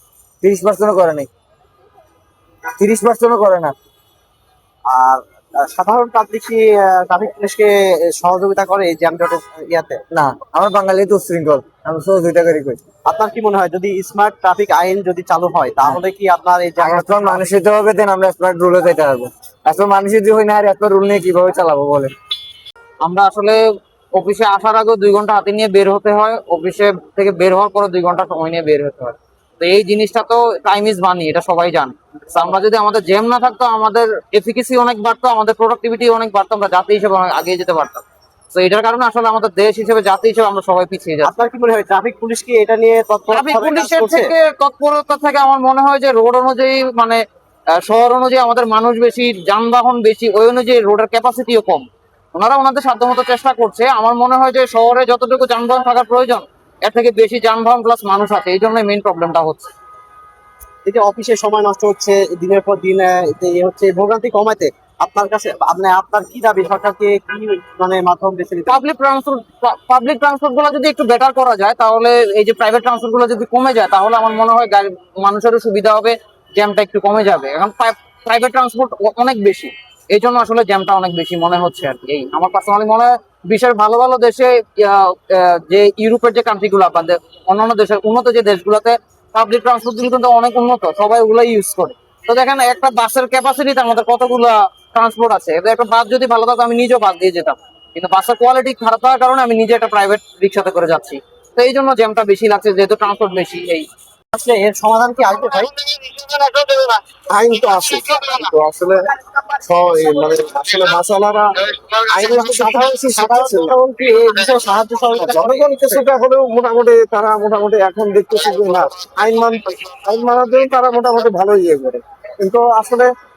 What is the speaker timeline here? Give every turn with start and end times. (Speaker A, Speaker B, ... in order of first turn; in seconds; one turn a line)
Speaker A: 0.4-1.3
Speaker A: 2.8-3.7
Speaker B: 4.9-10.0
Speaker A: 10.1-12.8
Speaker B: 13.0-17.4
Speaker A: 16.8-22.1
Speaker C: 23.0-23.6
Speaker C: 24.1-41.4
Speaker B: 41.2-44.3
Speaker C: 43.3-47.2
Speaker C: 47.8-59.7
Speaker B: 60.8-68.8
Speaker C: 68.7-103.9
Speaker B: 104.3-105.7
Speaker D: 107.3-113.7
Speaker B: 112.1-116.0
Speaker D: 115.2-123.1